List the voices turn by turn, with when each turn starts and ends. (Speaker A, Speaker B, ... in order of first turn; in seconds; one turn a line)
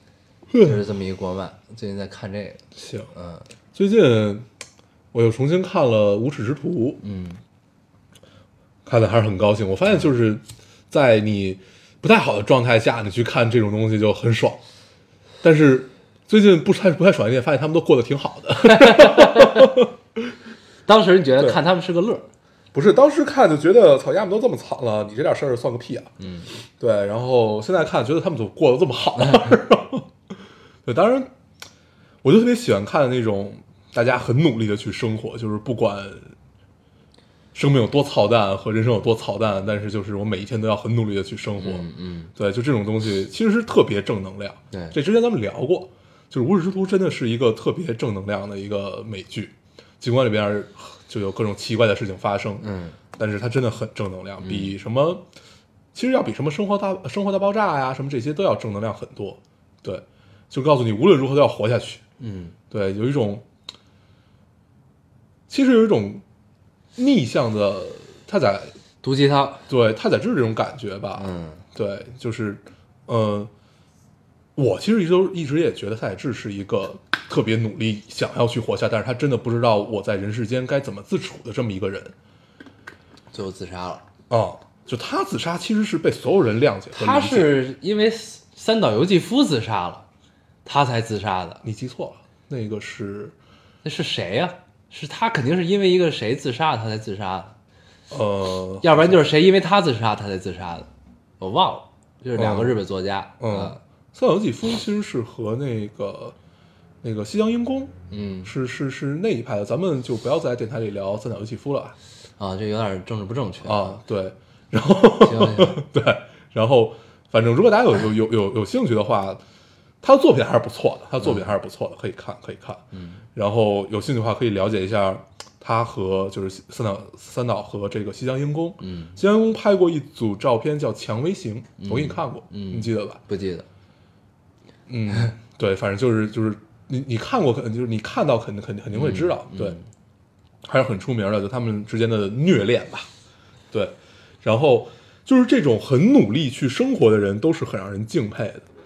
Speaker A: 0.5-0.8
Speaker B: 0.6-3.5
Speaker A: 2.8-3.1
Speaker A: 3.7-4.5
Speaker A: 5.1-7.0
Speaker B: 7.0-7.4
Speaker A: 8.9-14.6
Speaker A: 15.4-20.2
Speaker B: 18.6-19.7
Speaker B: 20.9-22.3
Speaker A: 22.7-26.1
Speaker B: 26.2-26.5
Speaker A: 26.8-30.1
Speaker A: 30.8-31.3
Speaker A: 32.2-36.3
Speaker A: 37.5-55.2
Speaker B: 41.6-42.3
Speaker B: 44.7-45.0
Speaker B: 52.6-53.0
Speaker B: 54.4-54.7
Speaker A: 55.9-62.0
Speaker B: 62.2-62.5
Speaker A: 62.7-63.5
Speaker A: 65.5-66.2
Speaker A: 67.0-68.7
Speaker B: 69.0-69.6
Speaker A: 69.7-73.5
Speaker B: 71.2-71.6
Speaker A: 74.5-82.1
Speaker B: 83.3-84.0
Speaker A: 84.3-87.5
Speaker B: 86.9-90.1
Speaker B: 90.6-91.6
Speaker A: 91.6-93.3
Speaker B: 93.8-97.5
Speaker A: 98.1-99.3
Speaker B: 98.8-100.9
Speaker B: 101.4-103.8
Speaker A: 102.4-102.8
Speaker A: 103.4-106.4
Speaker A: 107.0-112.0
Speaker B: 108.1-108.5
Speaker B: 112.4-114.0
Speaker A: 113.6-119.4
Speaker B: 115.2-115.8
Speaker A: 120.0-122.8
Speaker B: 121.2-121.5
Speaker B: 122.9-123.2
Speaker A: 123.3-133.2
Speaker B: 128.8-129.2
Speaker B: 131.8-133.7
Speaker A: 134.9-139.8
Speaker B: 138.9-139.8
Speaker A: 140.6-143.1
Speaker A: 143.7-148.6